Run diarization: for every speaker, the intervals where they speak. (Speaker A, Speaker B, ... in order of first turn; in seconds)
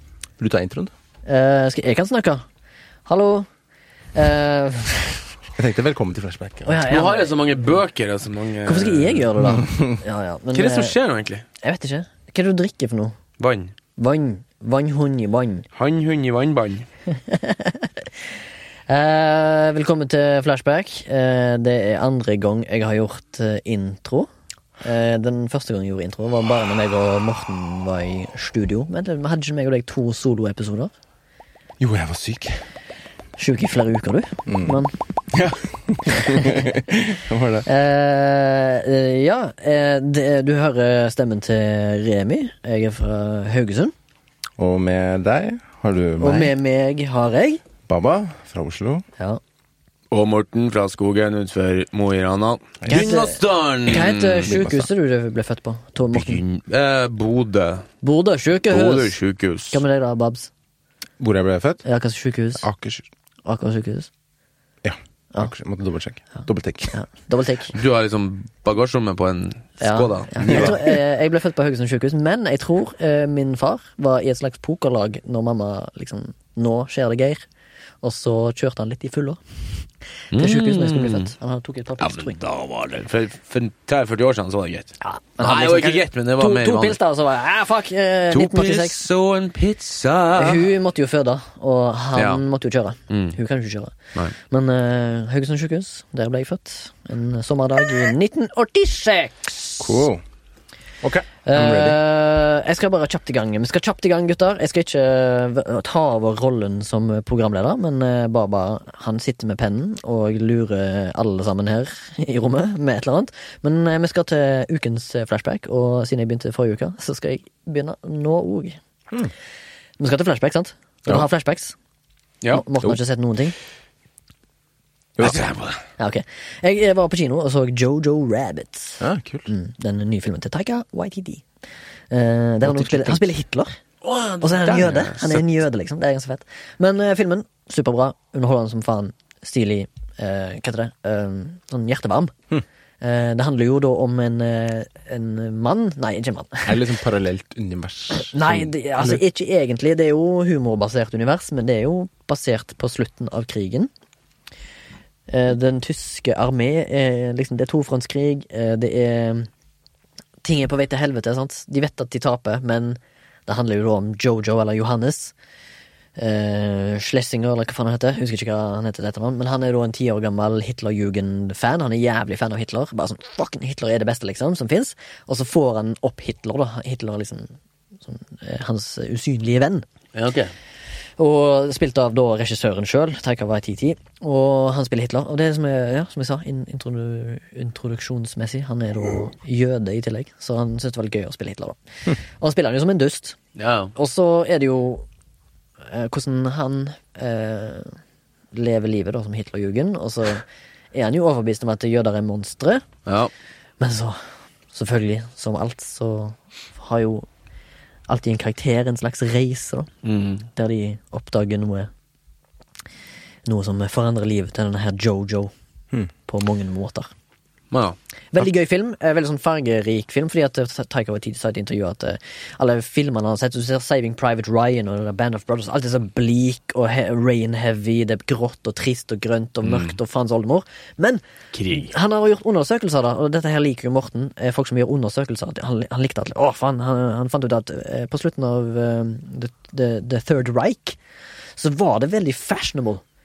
Speaker A: 0.4-0.9, 5.5-6.8, 9.4-9.9, 31.8-32.7, 34.5-34.8, 35.3-37.7, 44.6-46.5, 47.9-49.0, 54.5-54.9, 61.2-61.9, 62.6-63.1, 64.8-67.0, 70.4-70.8, 99.8-100.2, 101.0-102.0, 125.2-125.5, 129.0-129.5, 132.6-133.3, 146.7-149.2
Speaker B: 1.3-2.5, 3.1-3.5, 4.2-5.3, 6.7-7.3, 8.7-11.0, 11.6-13.2, 14.0-15.7, 17.1-18.1, 18.9-24.3, 24.8-30.9, 33.4-35.0, 36.0-36.8, 37.6-43.9, 46.2-47.6, 52.9-56.4, 58.0-59.2, 59.7-60.5, 61.9-62.7, 63.5-64.1, 66.9-67.7, 69.8-77.4, 78.0-79.4, 80.2-82.4, 85.0-89.0, 90.3-100.1, 101.5-118.8, 120.0-121.8, 122.5-123.6, 126.0-131.5, 132.1-133.8, 134.4-142.3, 143.0-146.9, 148.1-153.9, 155.3-159.5, 160.4-165.3, 166.2-179.9, 181.2-193.4, 193.9-195.1, 195.8-198.0, 198.5-202.8, 203.8-207.3, 208.1-209.9, 210.5-211.9, 213.4-215.5, 216.3-217.1, 218.3-231.2, 231.7-241.0, 241.6-243.0
Speaker C: 6.9-9.3, 10.5-11.4, 13.4-13.7, 15.7-16.9, 50.1-54.5, 56.1-57.9, 58.7-59.8, 67.7-70.8, 80.3-81.3, 82.0-87.0, 88.3-90.7, 92.2-92.4, 93.1-93.4, 125.2-125.8, 134.0-135.4, 180.1-180.5, 193.6-193.9, 203.1-203.3, 210.0-210.5, 217.7-218.0, 229.6-230.0, 231.5-231.9